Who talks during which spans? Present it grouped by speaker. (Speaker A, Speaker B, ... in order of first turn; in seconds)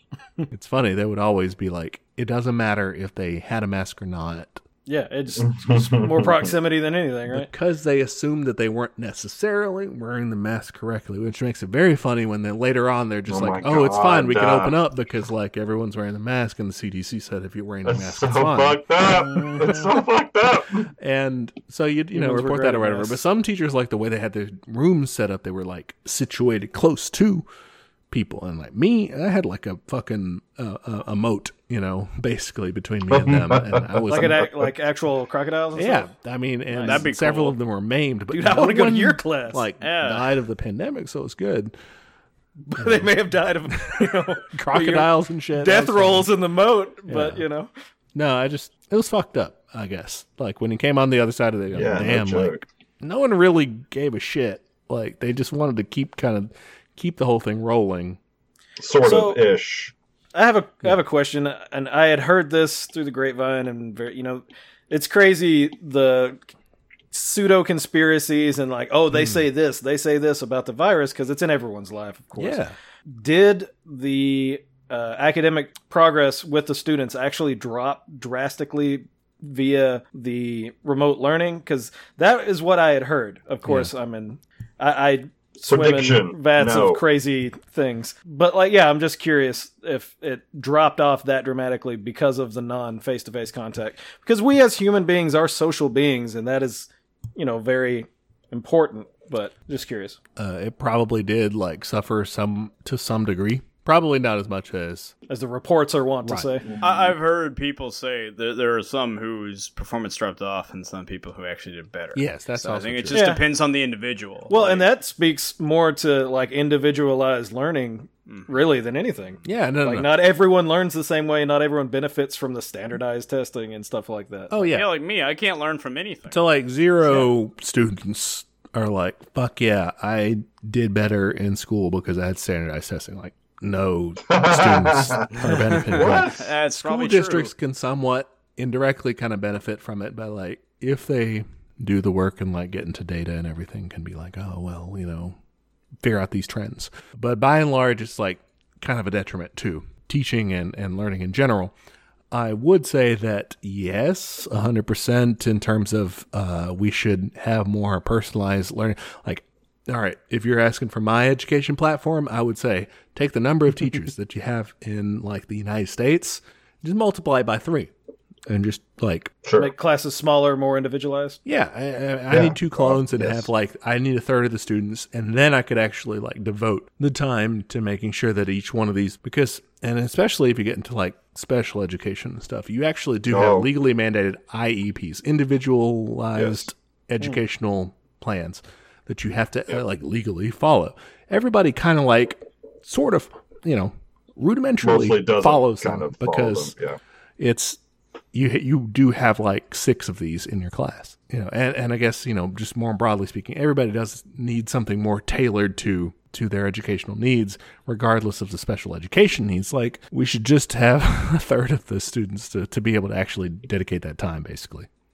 Speaker A: 0.5-4.6, 7.3-18.8, 21.0-27.4, 28.1-34.5, 35.8-41.7, 42.7-43.2, 43.7-46.3, 47.1-47.4, 48.1-58.2, 69.1-69.4, 72.4-72.7, 100.4-105.1, 106.2-106.7, 112.1-113.3, 119.4-120.1, 124.5-124.9, 126.3-145.4, 146.0-151.7, 152.3-167.9, 168.5-169.3, 171.4-196.7, 197.4-197.8, 198.3-214.9
Speaker B: 4.9-7.5, 19.1-19.8, 22.1-23.2, 34.1-36.1, 36.7-37.1, 38.3-39.6, 42.7-47.7, 59.0-59.4, 60.3-66.4, 67.1-72.6, 73.1-100.2, 105.3-106.7, 113.1-113.4, 114.5-124.7, 169.6-171.4
Speaker C: 5.4-6.5, 13.3-14.8, 17.8-20.9, 33.1-34.5, 51.7-52.6, 58.8-59.9, 85.7-87.0, 134.3-136.5, 169.4-169.7, 172.3-173.5, 183.3-183.7, 186.3-186.7, 194.8-197.0
Speaker D: 36.8-37.6, 39.8-40.4, 106.8-114.9, 124.7-126.4, 127.0-127.3, 135.5-137.5